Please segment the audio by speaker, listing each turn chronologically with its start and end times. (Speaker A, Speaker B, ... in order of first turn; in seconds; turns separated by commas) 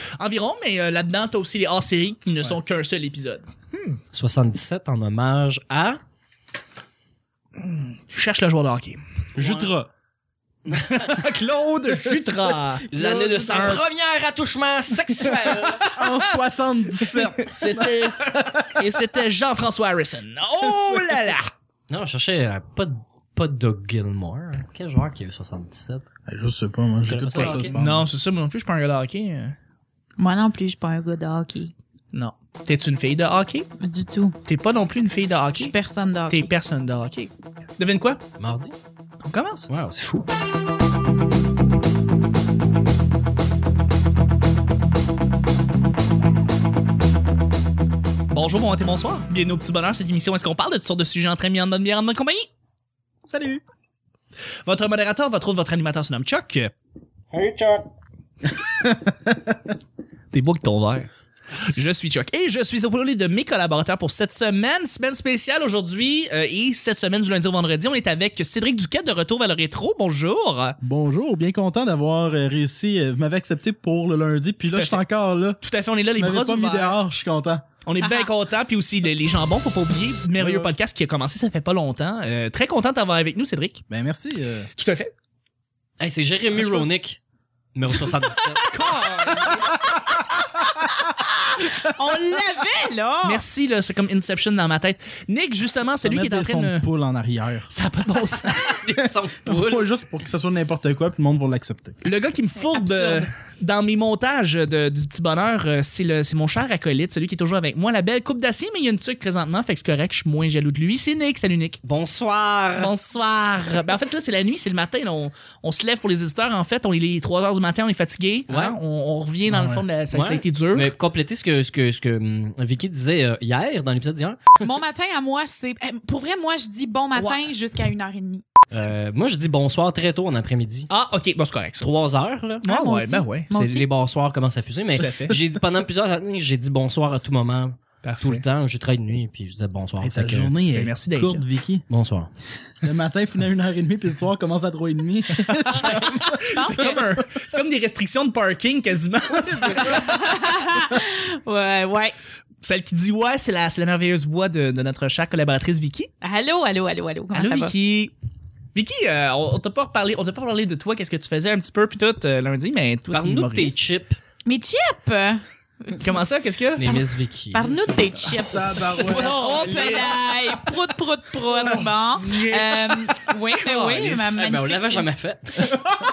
Speaker A: 0.2-4.0, Speaker B: 4.1-6.0, Speaker A: 7.6-9.0, Speaker C: 9.3-9.9, Speaker B: 9.4-9.7, Speaker B: 10.7-11.2, Speaker A: 10.7-13.8, Speaker B: 12.9-15.9, Speaker A: 15.6-16.3, Speaker C: 15.9-18.8, Speaker A: 17.4-21.5, Speaker B: 21.9-26.1, Speaker C: 26.2-28.1, Speaker B: 27.0-27.7, Speaker A: 27.4-29.6, Speaker D: 30.2-31.7, Speaker A: 32.1-33.7, Speaker D: 33.8-34.4, Speaker A: 34.5-35.7, Speaker D: 35.6-36.5, Speaker A: 36.3-38.2, Speaker B: 38.4-38.7, Speaker A: 39.2-39.7, Speaker B: 39.7-40.3, Speaker A: 48.3-52.5, Speaker C: 53.3-53.6, Speaker A: 54.6-56.7, Speaker B: 57.3-57.8, Speaker A: 60.3-70.8, Speaker C: 70.8-75.6, Speaker A: 74.7-75.0, Speaker A: 75.6-77.0, Speaker C: 76.2-77.7, Speaker A: 77.8-83.8, Speaker D: 78.0-78.3, Speaker C: 80.4-80.7, Speaker C: 83.9-84.7, Speaker A: 84.8-85.1, Speaker B: 86.0-87.2, Speaker C: 86.5-86.9, Speaker B: 87.7-88.8, Speaker A: 88.7-89.8, Speaker D: 88.8-93.4, Speaker A: 93.2-96.8, Speaker C: 96.0-97.7, Speaker A: 97.7-98.7, Speaker B: 98.4-99.9, Speaker C: 99.0-102.0, Speaker A: 102.0-111.8, Speaker D: 102.6-103.3, Speaker B: 111.8-112.9, Speaker A: 112.8-120.9, Speaker B: 118.5-118.8, Speaker C: 119.5-119.8, Speaker B: 120.1-124.7, Speaker D: 124.6-128.4, Speaker A: 127.2-127.4, Speaker B: 128.7-130.9, Speaker A: 130.9-131.9, Speaker B: 131.8-132.7, Speaker A: 132.6-133.5, Speaker D: 132.7-133.8, Speaker B: 133.5-140.5, Speaker A: 134.9-135.3, Speaker A: 138.0-138.4, Speaker C: 140.0-141.8, Speaker A: 140.7-141.4, Speaker B: 141.9-142.3, Speaker C: 142.8-147.0, Speaker A: 145.6-150.2, Speaker D: 145.8-147.1, Speaker C: 149.5-150.2, Speaker D: 149.7-152.2, Speaker A: 152.6-156.1, Speaker D: 156.2-157.7, Speaker A: 157.3-158.1, Speaker A: 158.7-163.8, Speaker B: 163.1-164.2, Speaker D: 164.4-166.2, Speaker A: 166.0-166.9, Speaker B: 166.8-168.4, Speaker D: 166.8-175.1, Speaker C: 168.2-169.6, Speaker A: 168.9-170.6, Speaker B: 169.4-170.1, Speaker A: 172.2-173.3, Speaker B: 173.6-175.9